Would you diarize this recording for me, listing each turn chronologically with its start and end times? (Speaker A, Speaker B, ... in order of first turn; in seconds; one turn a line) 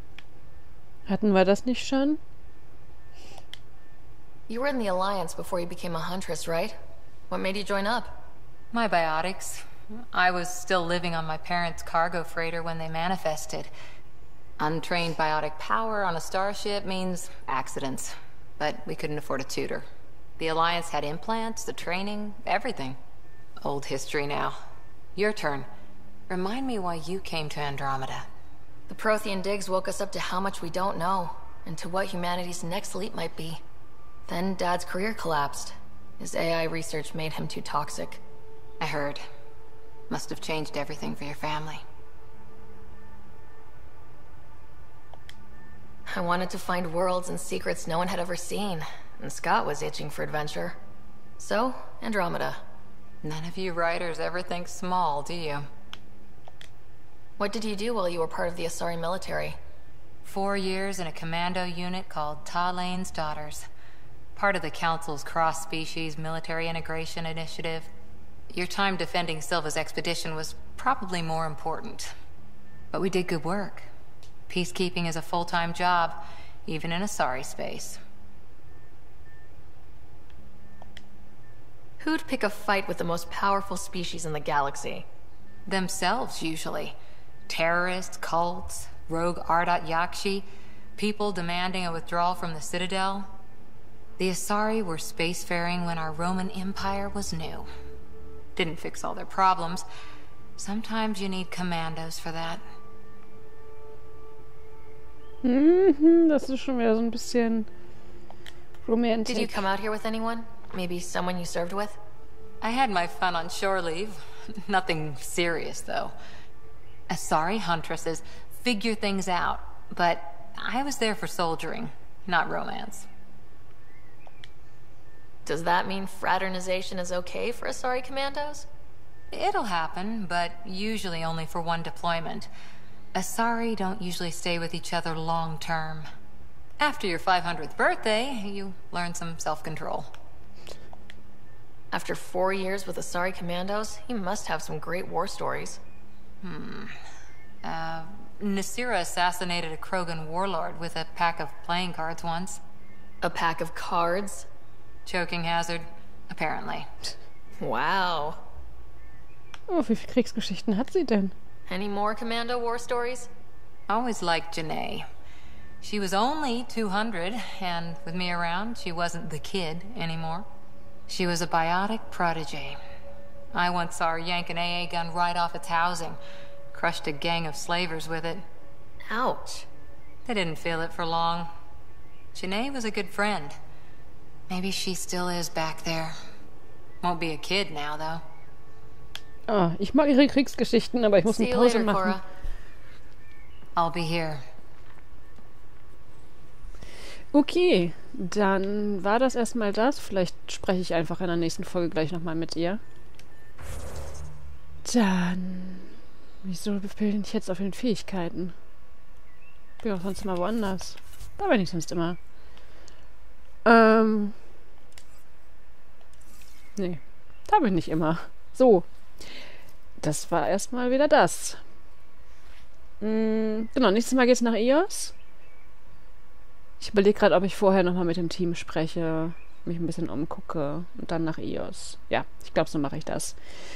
Speaker A: 1.1-2.2
Speaker B: 4.5-6.8
Speaker B: 7.3-8.2
Speaker C: 8.7-13.7
Speaker C: 14.6-19.9
Speaker C: 20.4-23.0
Speaker C: 23.6-24.6
Speaker C: 25.1-25.7
Speaker C: 26.3-28.3
Speaker B: 28.9-33.6
Speaker B: 34.3-38.2
Speaker C: 38.8-39.2
Speaker C: 40.1-41.8
Speaker B: 46.1-50.8
Speaker B: 51.4-52.6
Speaker C: 53.2-55.7
Speaker B: 57.4-59.6
Speaker C: 60.2-63.6
Speaker C: 64.3-67.9
Speaker C: 68.5-72.1
Speaker C: 72.9-73.9
Speaker C: 74.5-78.0
Speaker B: 82.0-85.0
Speaker C: 85.7-87.0
Speaker C: 87.5-93.3
Speaker C: 94.2-97.7
Speaker C: 98.5-99.8
Speaker C: 100.6-102.6
Speaker A: 105.4-107.7
Speaker A: 108.8-109.7
Speaker B: 109.3-112.0
Speaker C: 112.6-116.1
Speaker C: 117.1-123.0
Speaker B: 125.5-128.7
Speaker C: 129.3-132.5
Speaker C: 133.1-136.1
Speaker C: 136.8-140.1
Speaker B: 141.9-145.8
Speaker C: 146.4-146.9
Speaker C: 147.6-152.6
Speaker B: 153.2-154.4
Speaker C: 155.1-156.9
Speaker B: 157.6-158.4
Speaker A: 159.7-161.3
Speaker B: 161.7-163.3
Speaker C: 163.9-165.1
Speaker C: 165.8-170.5
Speaker C: 171.1-172.8
Speaker C: 173.5-176.2
Speaker C: 176.7-178.4
Speaker B: 179.1-179.7
Speaker C: 180.2-181.5
Speaker C: 182.3-183.6
Speaker C: 184.5-186.2
Speaker C: 187.0-188.2
Speaker A: 189.5-192.2
Speaker B: 191.3-192.2
Speaker C: 193.8-194.4
Speaker A: 197.3-202.8
Speaker A: 204.8-208.5
Speaker A: 209.8-212.2
Speaker A: 213.6-214.3
Speaker A: 216.8-218.8
Speaker A: 220.0-221.6
Speaker A: 223.0-225.1
Speaker A: 226.8-233.4